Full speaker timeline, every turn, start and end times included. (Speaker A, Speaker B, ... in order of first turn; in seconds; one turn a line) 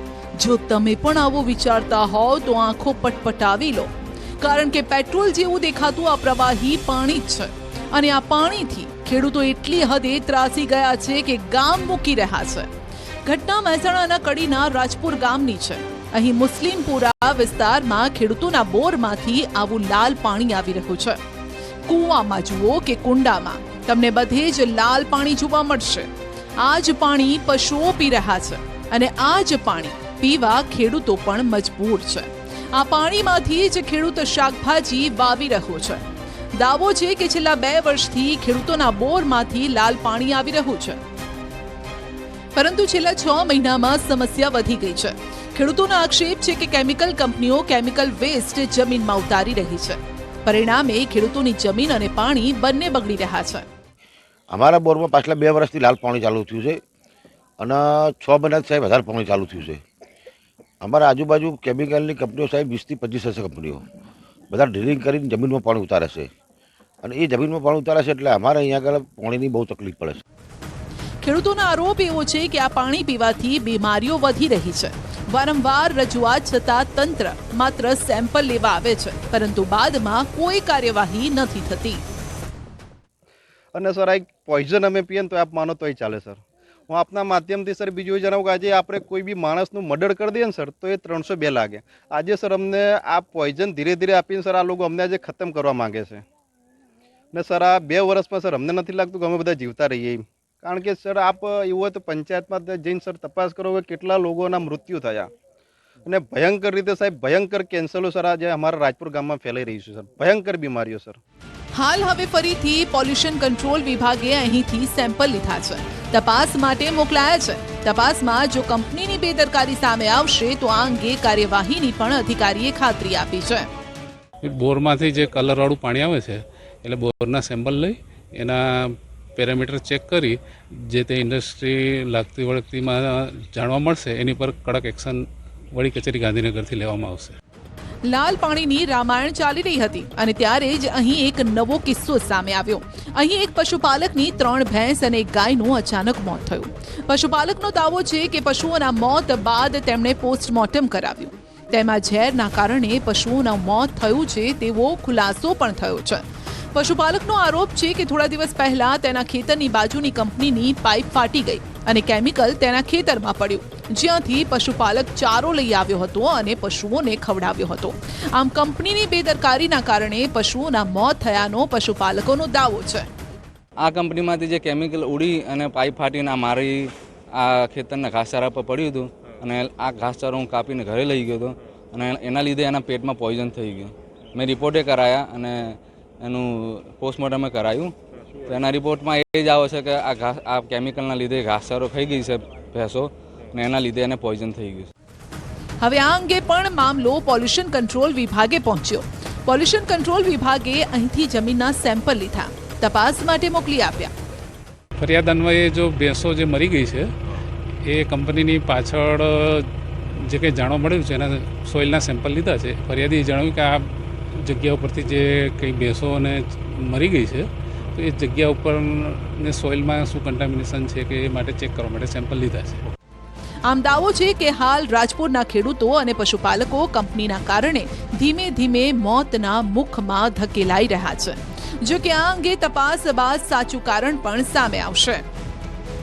Speaker A: 0.4-12.7
Speaker A: 13.3-21.2
Speaker A: 21.9-26.1
Speaker A: 26.6-36.0
Speaker A: 36.6-41.0
Speaker A: 42.5-53.6
Speaker B: 54.5-56.8
Speaker B: 57.6-59.8
Speaker B: 60.8-63.8
Speaker B: 64.5-66.3
Speaker B: 67.0-70.2
Speaker A: 71.2-82.0
Speaker C: 83.8-96.2
Speaker C: 97.3-105.3
Speaker C: 106.1-111.2
Speaker A: 111.7-123.7
Speaker D: 124.4-137.4
Speaker A: 138.1-156.2
Speaker A: 156.8-173.1
Speaker E: 173.8-187.9
Speaker E: 188.5-194.9
Speaker A: 195.8-204.1
Speaker D: 205.0-207.1
Speaker D: 207.9-209.7
Speaker D: 210.2-213.9
Speaker D: 214.4-222.8
Speaker A: 223.7-235.2